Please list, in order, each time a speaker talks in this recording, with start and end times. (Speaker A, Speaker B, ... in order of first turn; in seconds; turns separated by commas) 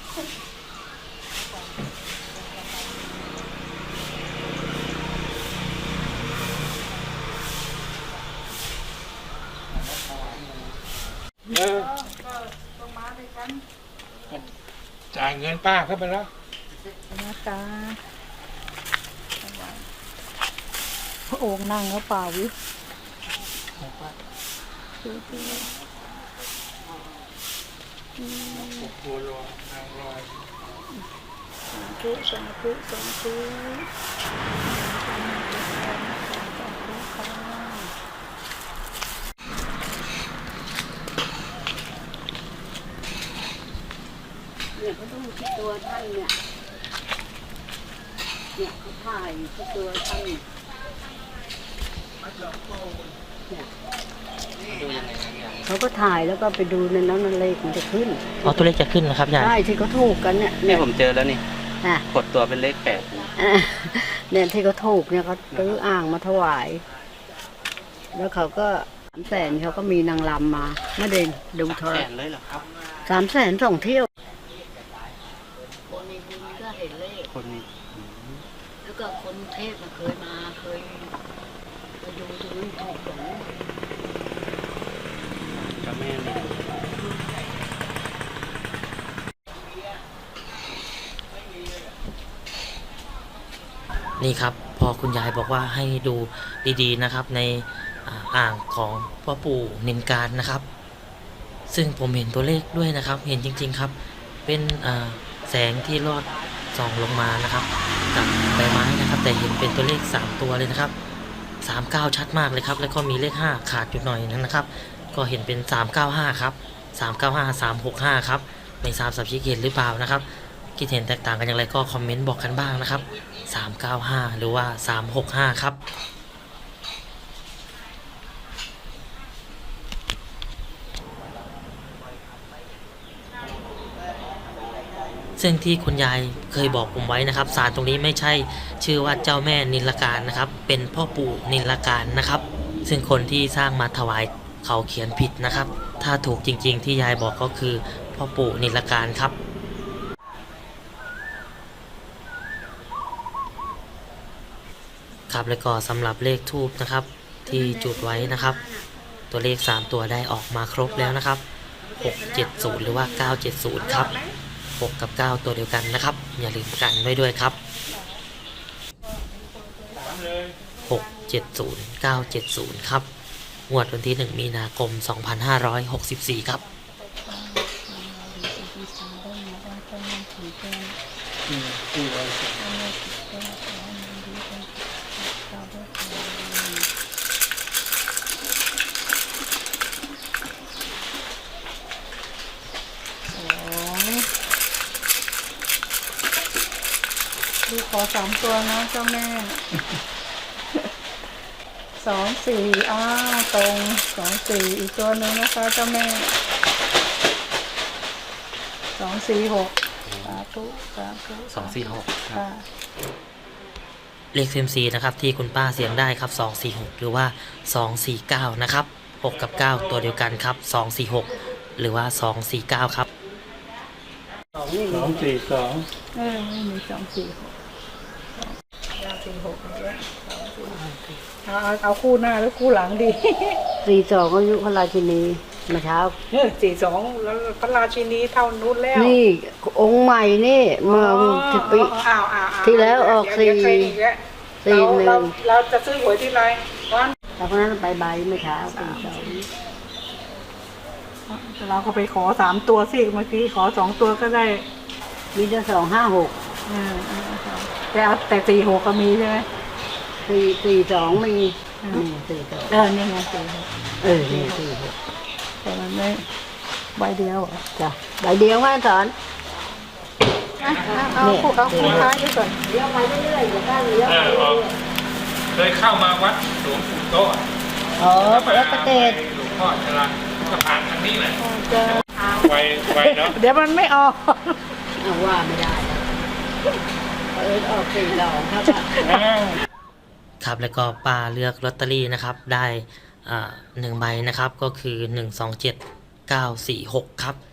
Speaker A: 1.4-3.1, Speaker A: 11.5-13.6, Speaker B: 11.5-11.9, Speaker B: 15.1-16.3, Speaker A: 17.1-18.0, Speaker A: 19.4-19.9, Speaker A: 21.3-22.5, Speaker A: 25.0-25.7, Speaker A: 28.2-28.9, Speaker B: 28.6-30.3, Speaker A: 31.7-33.9, Speaker A: 34.6-37.9, Speaker C: 44.8-46.4, Speaker C: 48.5-50.4, Speaker D: 54.7-55.6, Speaker C: 55.6-58.7, Speaker E: 58.4-59.5, Speaker C: 59.3-60.8, Speaker D: 60.7-61.4, Speaker D: 62.1-63.3, Speaker C: 63.3-66.8, Speaker C: 68.1-72.1, Speaker D: 71.7-72.7, Speaker C: 73.0-74.1, Speaker C: 75.8-77.3, Speaker D: 77.3-78.4, Speaker C: 78.8-81.1, Speaker C: 82.0-83.5, Speaker D: 85.8-86.5, Speaker E: 94.2-100.7, Speaker E: 101.7-103.9, Speaker E: 104.5-110.9, Speaker E: 111.6-125.8, Speaker E: 135.4-149.3, Speaker E: 155.3-158.6, Speaker C: 157.4-158.9, Speaker E: 159.3-161.4, Speaker C: 160.8-161.2, Speaker C: 161.8-164.3, Speaker E: 162.0-164.1, Speaker E: 164.8-167.6, Speaker A: 167.6-168.2, Speaker A: 169.0-171.6, Speaker B: 169.9-170.5, Speaker E: 170.8-173.1, Speaker E: 173.7-176.6, Speaker A: 176.4-180.9, Speaker B: 181.5-182.5, Speaker A: 182.6-186.9, Speaker A: 193.3-194.3, Speaker A: 197.7-199.6, Speaker A: 202.0-206.3, Speaker A: 208.9-212.6, Speaker D: 211.5-212.4, Speaker E: 214.3-223.1, Speaker C: 224.5-225.4, Speaker B: 224.9-225.8, Speaker A: 226.1-227.5, Speaker A: 228.3-230.8, Speaker C: 230.7-231.0, Speaker A: 231.4-233.6, Speaker C: 233.8-236.2, Speaker A: 236.3-239.2, Speaker C: 238.9-241.9, Speaker A: 240.8-247.1, Speaker C: 242.6-244.0, Speaker C: 244.6-245.3, Speaker C: 247.4-249.5, Speaker A: 248.6-249.4, Speaker A: 251.3-254.7, Speaker C: 255.3-256.4, Speaker A: 256.6-259.5, Speaker C: 260.2-262.8, Speaker A: 262.7-264.6, Speaker C: 264.0-264.9, Speaker A: 265.6-266.2, Speaker A: 266.9-267.6, Speaker C: 267.8-269.1, Speaker B: 270.6-271.1, Speaker A: 270.6-272.6, Speaker C: 270.9-272.1, Speaker B: 271.7-272.0, Speaker C: 272.6-274.7, Speaker B: 274.0-274.6, Speaker B: 275.5-277.4, Speaker C: 278.0-279.2, Speaker B: 278.0-281.4, Speaker A: 281.4-284.6, Speaker B: 282.4-283.4, Speaker C: 285.0-286.3, Speaker C: 287.3-288.9, Speaker A: 288.8-289.3, Speaker B: 289.0-289.6, Speaker E: 290.4-297.4